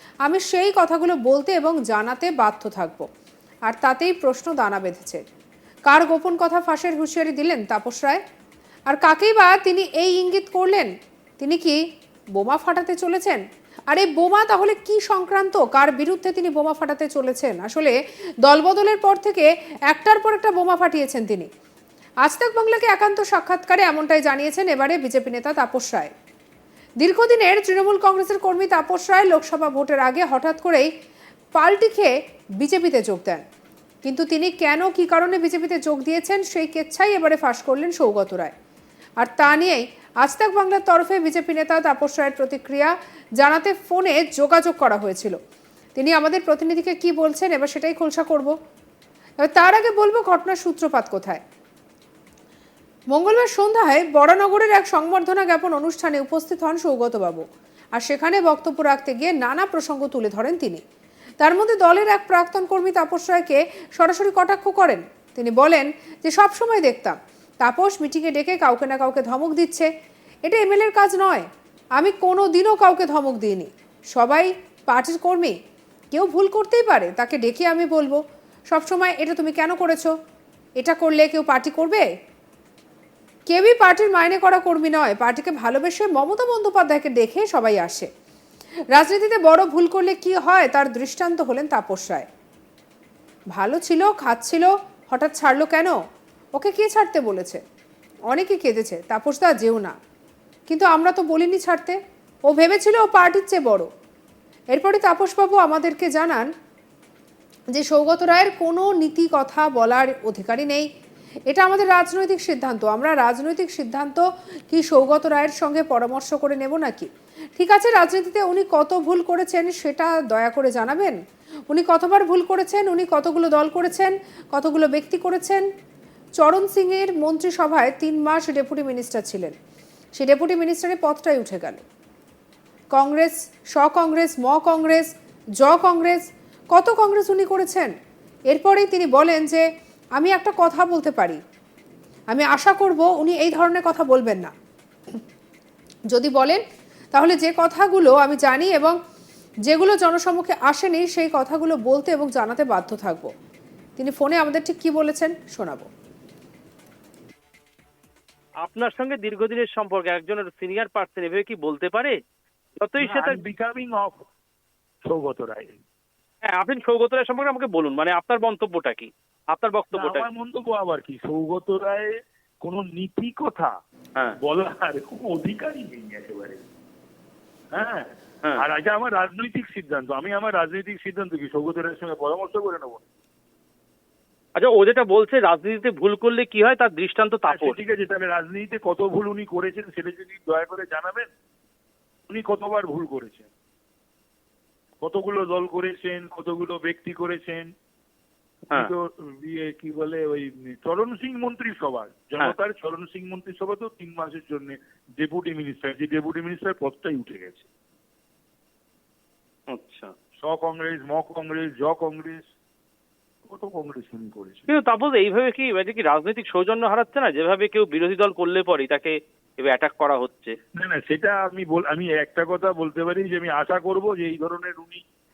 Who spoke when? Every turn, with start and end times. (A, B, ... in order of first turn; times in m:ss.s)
0:00.2-0:03.0 A
0:03.7-0:05.2 A
0:05.9-0:08.2 A
0:08.9-0:10.9 A
0:11.4-0:11.8 A
0:12.4-0:17.9 A
0:18.4-0:21.5 A
0:22.2-0:26.1 A
0:27.0-0:30.9 A
0:31.6-0:33.4 A
0:34.0-0:38.5 A
0:39.2-0:45.4 A
0:46.0-0:48.5 A
0:49.4-0:51.4 A
0:53.1-0:57.4 A
0:58.0-1:00.8 A
1:01.4-1:09.9 A
1:10.5-1:15.6 A
1:16.1-1:20.1 A
1:20.8-1:22.1 A
1:23.5-1:28.1 A
1:28.9-1:32.3 A
1:33.5-1:36.0 A
1:36.6-1:37.6 A
1:38.3-1:39.9 A
1:40.7-1:42.0 A
1:42.5-1:43.9 A
1:44.7-1:46.5 A
1:47.7-1:50.9 A
1:51.5-2:01.2 A
2:01.7-2:05.6 A
2:06.4-2:09.5 A
2:10.2-2:11.8 A
2:12.9-2:15.1 A
2:15.6-2:17.9 A
2:18.5-2:19.6 A
2:20.2-2:21.4 A
2:22.3-2:24.5 A
2:26.1-2:26.6 A
2:27.1-2:29.0 A
2:29.7-2:33.3 A
2:34.0-2:35.9 A
2:38.6-2:42.2 B
2:42.8-2:43.4 B
2:43.0-2:44.2 C
2:45.0-2:45.8 C
2:46.4-2:50.2 B
2:49.9-2:53.8 C
2:54.4-2:56.6 C
2:57.7-3:03.0 C
3:04.6-3:07.8 B
3:07.5-3:11.3 C
3:12.3-3:13.5 C
3:15.0-3:17.7 C
3:18.7-3:27.7 C
3:29.7-3:30.1 B
3:30.4-3:32.5 C
3:33.4-3:34.7 C
3:34.7-3:40.6 B
3:40.8-3:45.0 C